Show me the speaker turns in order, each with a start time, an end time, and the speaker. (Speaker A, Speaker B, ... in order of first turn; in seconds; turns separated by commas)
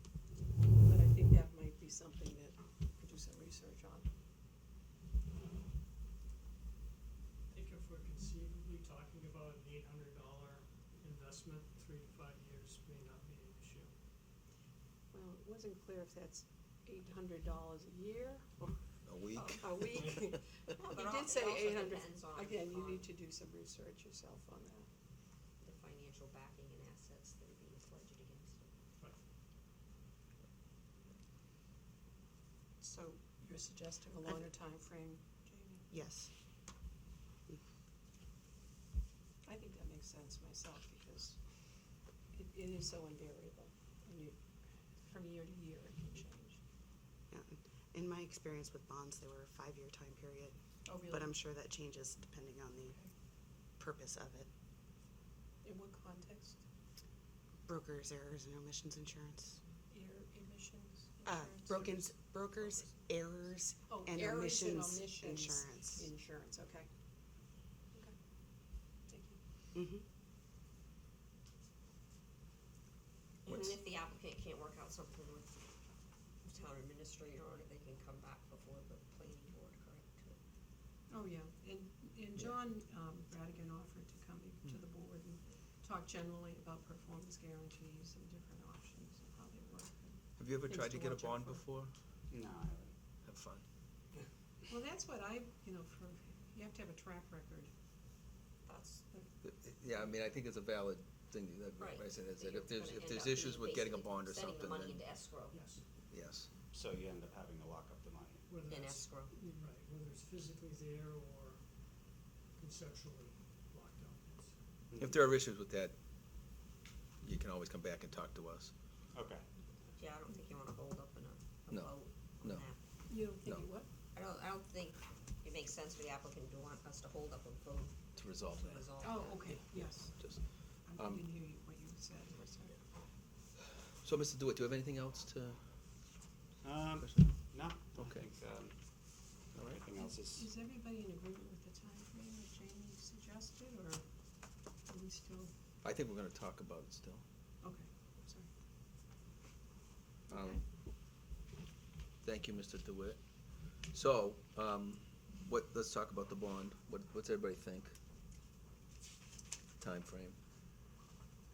Speaker A: 0.8-4.1, Speaker B: 7.5-13.9, Speaker A: 15.1-18.8, Speaker C: 19.1-20.0, Speaker D: 19.3-23.1, Speaker A: 19.6-24.9, Speaker D: 25.6-28.7, Speaker A: 32.8-35.9, Speaker E: 35.9-36.3, Speaker A: 39.4-41.4, Speaker A: 42.3-44.4, Speaker A: 45.0-46.6, Speaker E: 47.3-53.0, Speaker A: 50.9-51.3, Speaker E: 53.8-54.5, Speaker A: 55.6-56.6, Speaker E: 57.7-59.6, Speaker A: 59.9-61.9, Speaker E: 61.2-66.1, Speaker A: 63.9-66.9, Speaker A: 69.1-69.4, Speaker E: 69.7-70.0, Speaker D: 73.5-75.7, Speaker D: 76.4-80.4, Speaker A: 81.1-91.7, Speaker C: 90.4-92.0, Speaker F: 92.3-93.0, Speaker C: 93.2-93.6, Speaker A: 94.7-97.7, Speaker D: 98.7-99.0, Speaker C: 99.4-105.2, Speaker D: 101.8-105.6, Speaker B: 105.5-105.8, Speaker C: 106.1-106.5, Speaker F: 106.7-108.5, Speaker B: 108.5-109.1, Speaker D: 108.7-109.4, Speaker A: 109.4-109.7, Speaker B: 109.6-111.8, Speaker B: 112.5-114.6, Speaker F: 114.9-115.2, Speaker C: 115.0-116.0, Speaker C: 117.2-118.7, Speaker F: 119.1-119.5, Speaker D: 120.0-122.8, Speaker C: 121.7-122.7, Speaker A: 123.1-123.9, Speaker D: 124.1-129.7, Speaker C: 128.2-128.9, Speaker A: 129.0-132.8, Speaker C: 130.2-131.3, Speaker C: 134.0-135.6, Speaker F: 136.6-140.6, Speaker C: 137.0-137.4, Speaker C: 137.9-138.3, Speaker C: 139.5-139.8, Speaker A: 140.0-144.0, Speaker A: 144.9-145.5, Speaker C: 145.8-147.2, Speaker A: 147.6-148.5, Speaker C: 150.3-150.6, Speaker A: 150.3-150.6, Speaker C: 152.2-157.9, Speaker C: 159.8-160.4